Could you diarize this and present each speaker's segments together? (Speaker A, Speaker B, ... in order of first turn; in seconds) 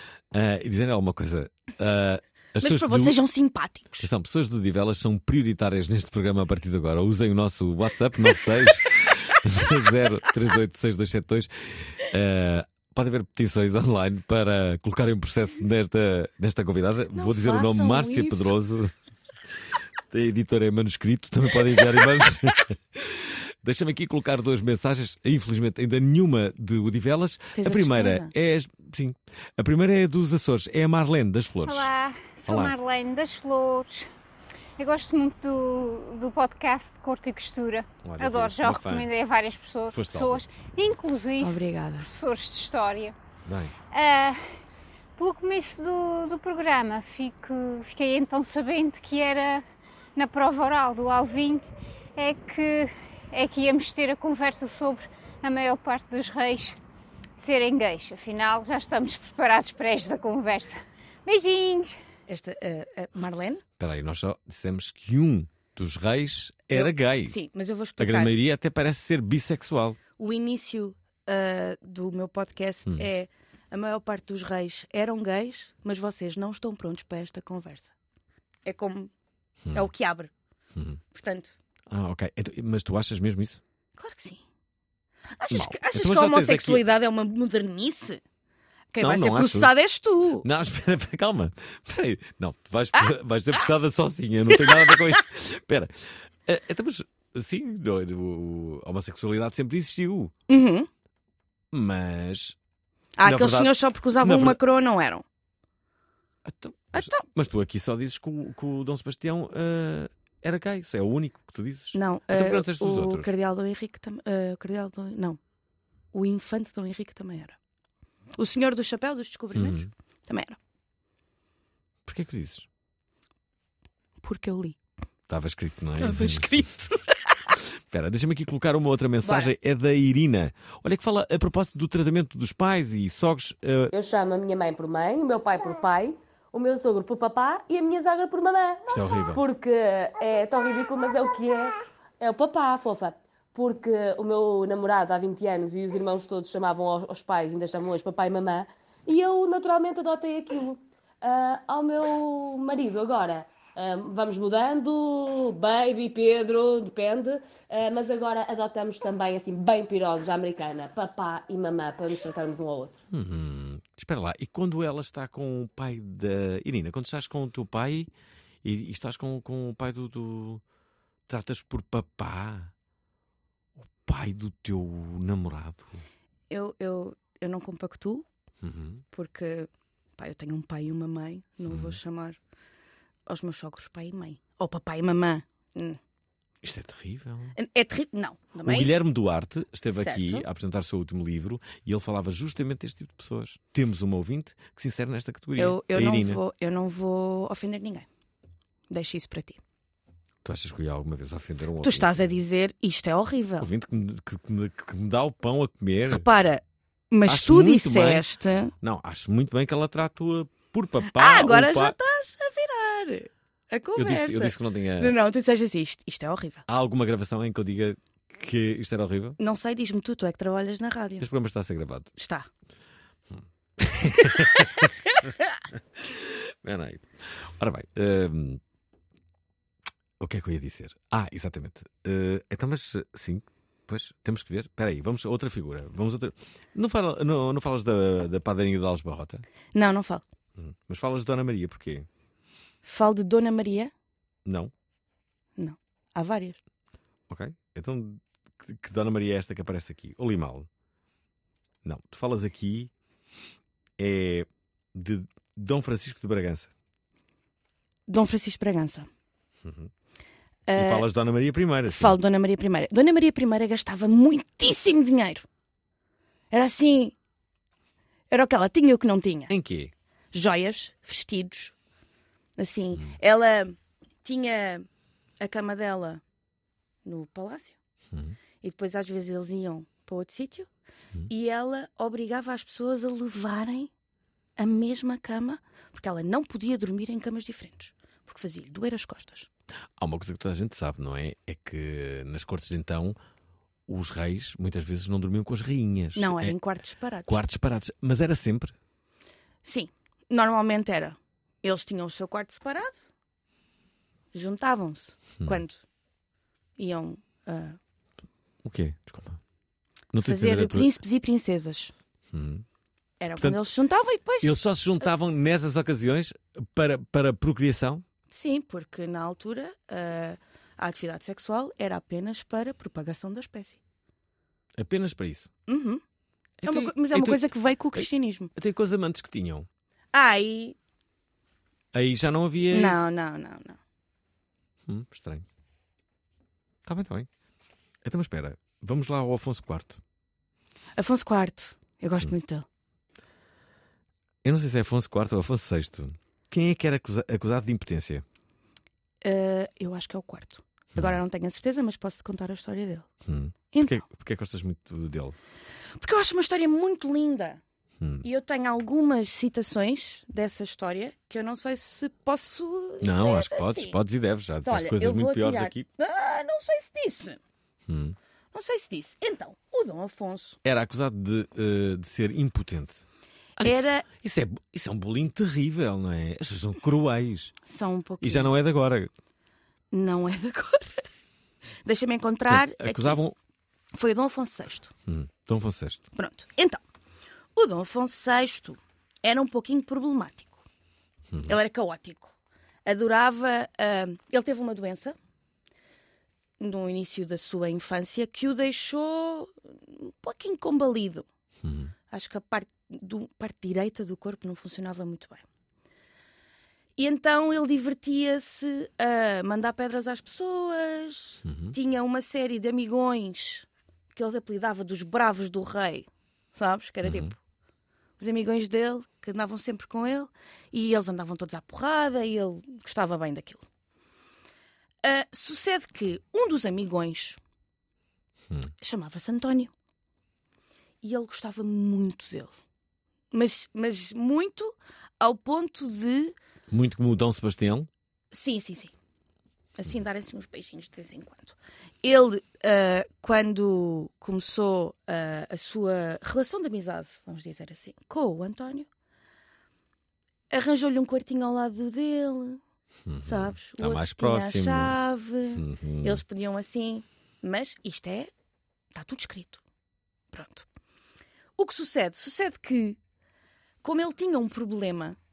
Speaker A: 0.3-3.2, 4.0-18.9, 20.1-31.9, 32.5-32.7, 38.0-39.1, 39.9-40.5, 43.5-43.7, 63.8-67.4, 68.0-70.0, 81.9-83.6, 85.5-86.8, 89.0-89.7, 90.4-100.3, 101.7-102.6, 103.2-104.6, 106.4-113.3, 119.5-119.9, 122.0-122.7, 125.3-126.7, 127.6-133.9, 138.9-139.4, 163.1-168.1, 168.6-170.6, 171.3-172.7, 173.8-176.0, 178.6-179.0, 181.7-182.0, 186.6-187.6, 188.6-196.4, 200.4-202.3, 203.6-206.3, 207.2-208.2, 208.8-211.9, 213.9-215.1, 216.7-219.4, 221.2-222.1, 223.3-224.9, 226.0-228.6, 230.2-239.4, 240.6-242.1, 244.4-244.7, 247.3-250.7, 251.8-252.9, 254.0-256.7, 259.6-259.9, 260.7-262.2, 269.5-269.9, 278.1-278.4, 290.0-293.2, 293.9-296.6, 297.2-298.7, 308.6-309.4, 310.1-310.9, 312.3-312.6, 313.4-313.6, 314.4-318.0, 324.8-325.5, 326.6-329.7, 331.9-333.1, 334.9-335.4, 336.8-337.3, 338.0-340.0, 344.4-348.2, 353.2-355.4, 358.0-358.2, 363.0-365.9, 367.9-368.1, 370.6-373.0, 373.6-377.6, 378.2-379.1, 382.5-383.4, 385.1-386.0, 391.3-391.6, 401.6-401.9, 411.4-411.8, 417.0-417.3, 436.7-437.9, 453.1-455.0, 455.5-456.2
Speaker B: 2.6-4.1, 17.1-18.6, 27.5-28.3, 41.4-42.1, 62.3-63.6, 66.7-68.4, 70.2-77.9, 78.6-79.1, 79.7-80.3, 81.1-81.5, 84.0-84.4, 85.4-88.2, 88.9-90.5, 94.5-95.0, 100.5-100.9, 103.2-105.2, 106.9-107.2, 111.9-115.4, 116.1-117.5, 118.4-120.6, 124.2-124.8, 126.0-127.0, 129.2-129.5, 176.5-178.2, 179.1-182.4, 183.3-186.0, 187.6-188.9, 189.9-190.4, 195.6-198.1, 198.9-199.6, 201.8-203.7, 206.1-208.7, 211.0-216.6, 219.4-221.3, 222.2-222.5, 239.7-240.2, 242.8-243.9, 245.6-246.6, 258.1-259.1, 260.7-261.1, 261.9-265.4, 266.5-267.1, 268.3-269.5, 270.3-271.7, 272.6-274.9, 275.4-276.2, 277.0-277.8, 278.6-280.7, 281.3-283.9, 284.6-289.5, 296.1-297.4, 299.6-303.1, 304.3-305.8, 306.8-307.8, 310.2-311.9, 313.2-314.6, 318.3-323.8, 325.7-326.0, 326.6-328.5, 330.1-330.8, 332.7-333.8, 341.0-342.6, 349.2-353.1, 353.7-354.0, 356.0-357.6, 358.2-364.0, 364.6-367.4, 368.5-370.6, 373.6-374.1, 377.6-378.5, 379.9-381.1, 381.8-383.2, 383.9-384.9, 386.1-386.8, 387.6-390.6, 391.5-395.1, 396.6-401.2, 402.1-405.4, 407.0-417.4, 418.2-423.6, 425.0-427.4, 428.8-429.7, 431.0-432.6, 433.3-436.4, 438.3-438.9, 439.8-448.9, 450.5-452.6, 453.2-458.3, 458.9-459.6, 460.3-460.6, 461.6-463.0, 463.8-465.2
Speaker C: 31.6-34.1, 34.8-43.1, 43.9-44.4, 45.2-49.6, 50.1-51.6, 52.1-56.8, 57.4-62.0
Speaker D: 133.9-163.0